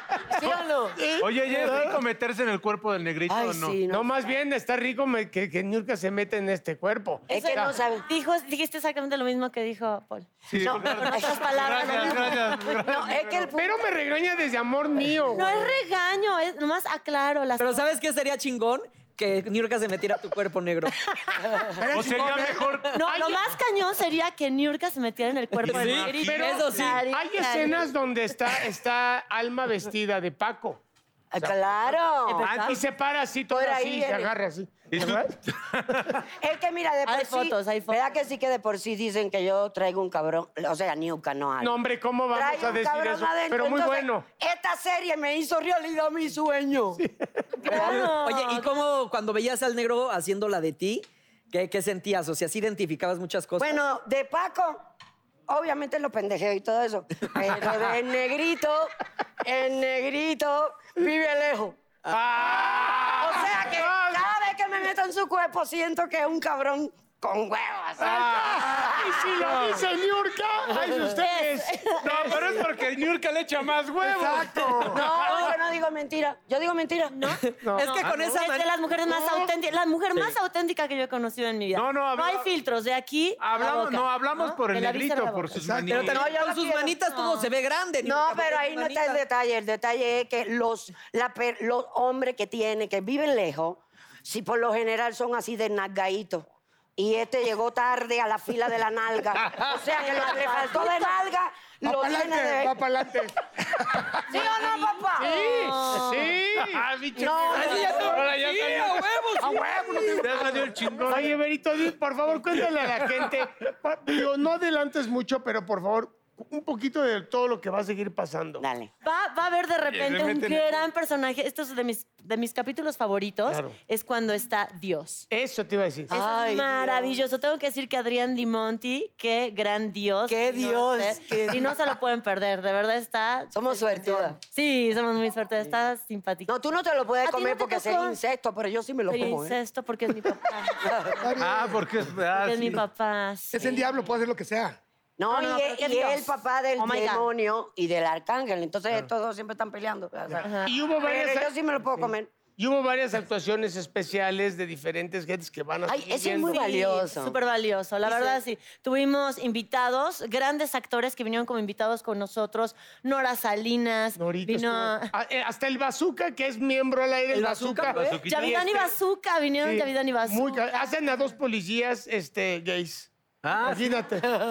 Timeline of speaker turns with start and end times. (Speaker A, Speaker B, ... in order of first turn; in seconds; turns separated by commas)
Speaker A: 0.3-1.2, Speaker B: 1.0-2.0, Speaker C: 1.2-3.8, Speaker A: 3.3-4.1, Speaker B: 3.9-7.7, Speaker A: 7.3-8.1, Speaker D: 7.3-12.8, Speaker C: 10.5-13.5, Speaker A: 10.6-11.5, Speaker A: 12.8-13.8, Speaker B: 13.5-15.7, Speaker D: 15.3-17.8, Speaker E: 17.6-21.0, Speaker F: 21.7-22.8, Speaker C: 21.9-23.0, Speaker D: 22.9-27.9, Speaker B: 23.1-23.4, Speaker E: 25.6-27.0, Speaker C: 25.6-27.0, Speaker B: 26.3-30.8, Speaker A: 31.3-32.5, Speaker D: 32.3-32.8, Speaker C: 32.4-32.8, Speaker B: 32.6-35.3, Speaker A: 33.5-34.3, Speaker C: 34.9-36.2, Speaker A: 36.2-41.8, Speaker D: 37.1-38.2, Speaker B: 41.6-44.3, Speaker A: 42.3-47.0, Speaker B: 47.0-47.4, Speaker D: 47.6-48.7, Speaker A: 47.7-48.0, Speaker E: 47.7-53.8, Speaker A: 53.6-54.9, Speaker A: 55.5-61.8, Speaker C: 62.1-63.8, Speaker B: 62.6-64.1, Speaker A: 63.0-69.4, Speaker C: 68.0-68.9, Speaker B: 68.0-72.6, Speaker C: 69.4-69.8, Speaker D: 71.2-72.4, Speaker C: 72.0-75.5, Speaker F: 74.0-75.0, Speaker A: 74.9-77.2, Speaker D: 77.1-85.6, Speaker E: 77.4-78.7, Speaker B: 77.6-77.9, Speaker A: 79.1-79.5, Speaker C: 81.7-82.5, Speaker C: 83.4-86.2, Speaker F: 85.5-86.1, Speaker E: 85.9-89.2, Speaker A: 86.0-87.0, Speaker D: 87.0-87.5, Speaker A: 88.0-102.8, Speaker D: 100.1-101.1, Speaker F: 101.8-104.3, Speaker A: 104.3-105.6, Speaker D: 104.3-106.4, Speaker B: 105.2-106.9, Speaker C: 106.6-109.3, Speaker A: 107.2-108.2, Speaker E: 107.4-109.7, Speaker F: 109.4-110.8, Speaker C: 110.1-111.4, Speaker B: 111.0-118.7, Speaker A: 118.6-118.9, Speaker D: 119.0-125.3, Speaker C: 119.9-120.8, Speaker B: 123.5-123.8, Speaker B: 125.3-126.1, Speaker A: 126.1-127.2, Speaker D: 126.1-136.5, Speaker A: 130.3-132.0, Speaker A: 133.5-134.4, Speaker A: 136.5-139.6, Speaker D: 137.2-138.2, Speaker D: 139.1-141.3, Speaker A: 140.8-141.3, Speaker F: 141.2-141.8, Speaker C: 141.4-142.8, Speaker D: 142.3-143.9, Speaker F: 143.5-144.8, Speaker A: 145.2-152.3, Speaker D: 145.3-147.3, Speaker D: 150.4-150.7, Speaker B: 150.7-151.5, Speaker B: 152.5-156.6, Speaker A: 155.9-157.4, Speaker D: 156.5-165.1, Speaker A: 158.1-158.4, Speaker B: 164.2-169.0, Speaker E: 167.3-168.2, Speaker C: 167.9-168.7, Speaker D: 168.2-170.6, Speaker B: 169.6-174.3, Speaker C: 173.4-174.0